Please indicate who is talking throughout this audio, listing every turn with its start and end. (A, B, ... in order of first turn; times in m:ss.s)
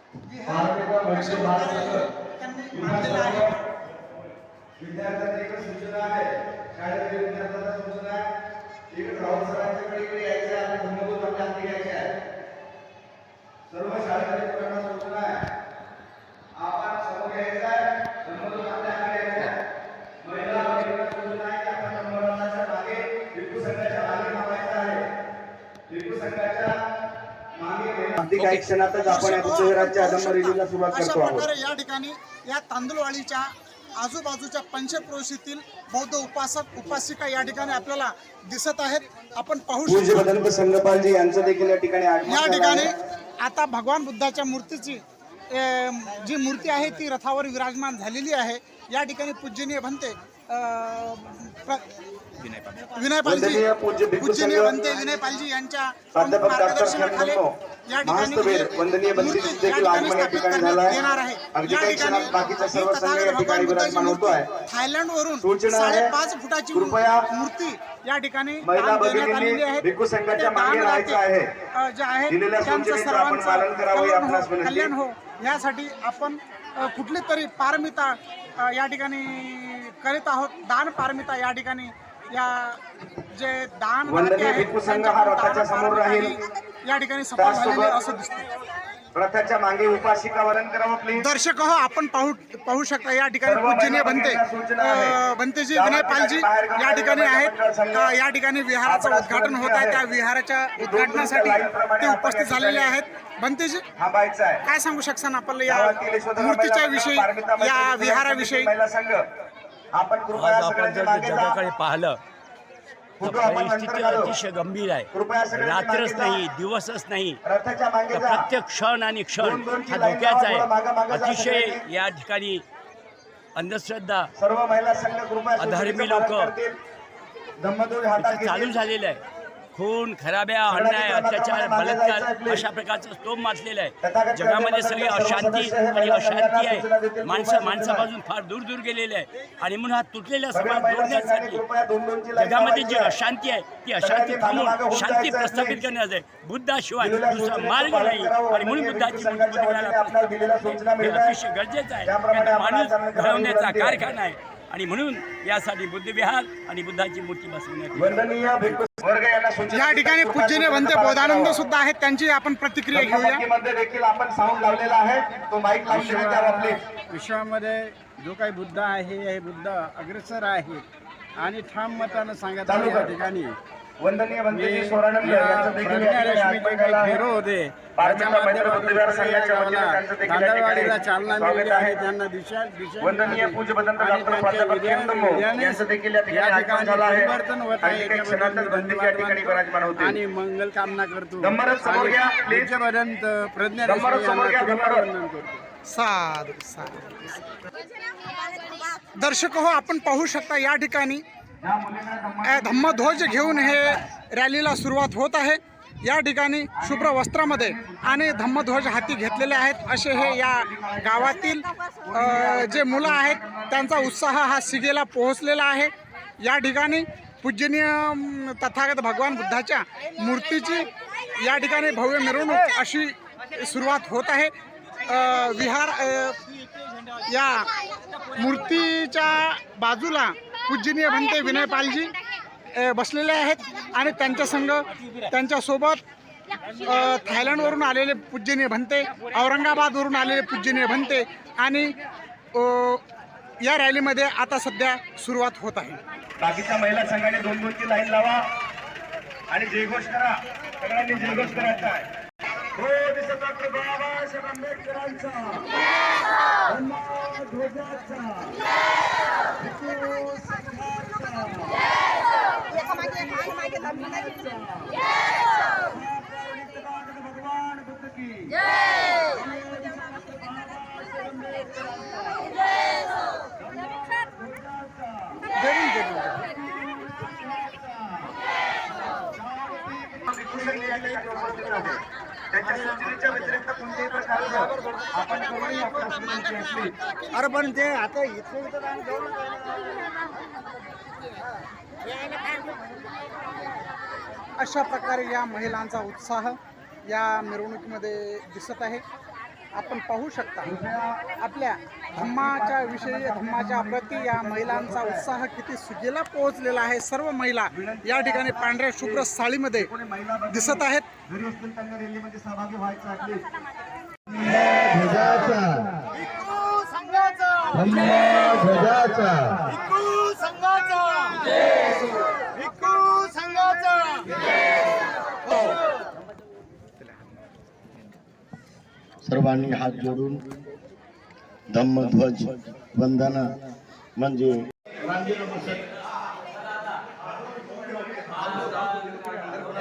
0:00.2-0:03.5 A
0:00.5-0:02.1 B
0:02.7-0:03.6 B
0:04.8-0:08.2 B
0:08.9-0:12.1 B
0:13.7-0:15.4 B
0:16.6-0:19.6 B
0:20.2-0:25.1 B
0:25.9-0:26.8 B
0:27.5-0:31.5 B
0:29.0-0:40.7 A
0:39.9-0:42.9 B
0:42.3-0:51.9 A
0:52.5-1:11.2 A
0:53.2-0:54.8 B
0:56.1-0:57.5 B
0:58.0-1:01.0 B
1:01.5-1:04.5 B
1:05.4-1:06.1 B
1:06.7-1:07.2 B
1:08.6-1:11.5 B
1:11.8-1:28.6 A
1:12.3-1:14.9 B
1:24.1-1:26.4 B
1:27.4-1:28.0 B
1:29.1-1:31.3 B
1:31.2-1:43.9 A
1:33.4-1:35.2 B
1:35.7-1:38.2 B
1:38.8-1:40.0 B
1:40.8-1:43.0 B
1:44.0-1:44.6 B
1:44.6-1:48.7 A
1:45.7-1:49.2 B
1:49.9-1:51.6 B
1:50.4-1:52.2 C
1:53.2-1:57.4 C
1:53.2-1:54.3 B
1:55.1-1:56.4 B
1:57.4-1:58.4 B
1:58.1-2:02.6 C
1:59.4-2:01.8 B
2:03.6-2:04.3 C
2:04.4-2:06.8 B
2:05.6-2:06.5 C
2:07.6-2:08.8 B
2:08.2-2:09.2 C
2:09.7-2:21.6 C
2:10.7-2:12.7 B
2:14.0-2:18.1 B
2:20.5-2:23.2 B
2:22.4-2:38.2 C
2:24.0-2:25.8 B
2:27.0-2:31.4 B
2:32.0-2:34.1 B
2:38.0-2:41.6 B
2:39.7-2:43.4 A
2:42.9-2:46.8 B
2:45.9-2:50.8 D
2:51.4-2:53.6 D
2:52.6-2:53.2 B
2:54.0-2:57.2 B
2:54.5-3:15.6 D
2:58.0-3:02.0 B
3:03.0-3:10.2 B
3:11.4-3:12.8 B
3:13.8-3:15.1 B
3:15.9-3:17.3 A
3:18.1-3:21.2 A
3:21.6-3:24.0 B
3:22.4-3:46.4 A
3:26.8-3:31.5 B
3:32.0-3:34.2 B
3:47.1-3:52.2 A
3:52.7-3:56.0 A
3:56.7-4:02.0 A
4:02.5-4:03.0 A
4:03.6-4:06.0 A
4:06.4-4:08.4 B
4:09.5-4:12.1 B
4:12.8-4:15.8 B
4:16.6-4:18.7 B
4:19.5-4:21.9 B
4:22.7-4:25.0 B
4:25.7-4:32.6 B
4:33.4-4:35.5 B
4:35.6-4:36.5 A
4:36.5-4:38.4 B
4:39.1-4:47.0 B
4:47.3-4:49.9 A
4:48.0-4:48.3 D
4:54.6-4:59.0 A
4:59.7-5:00.8 A
5:00.6-5:01.2 B
5:01.4-5:09.9 A
5:02.2-5:05.3 B
5:07.7-5:13.4 B
5:10.5-5:11.1 A
5:14.6-5:16.1 E
5:16.6-5:17.7 D
5:17.7-5:19.9 E
5:20.6-5:21.3 D
5:23.4-5:23.6 D
5:29.2-5:30.4 E
5:31.7-5:33.5 E
5:34.2-5:35.9 E
5:38.4-5:38.8 E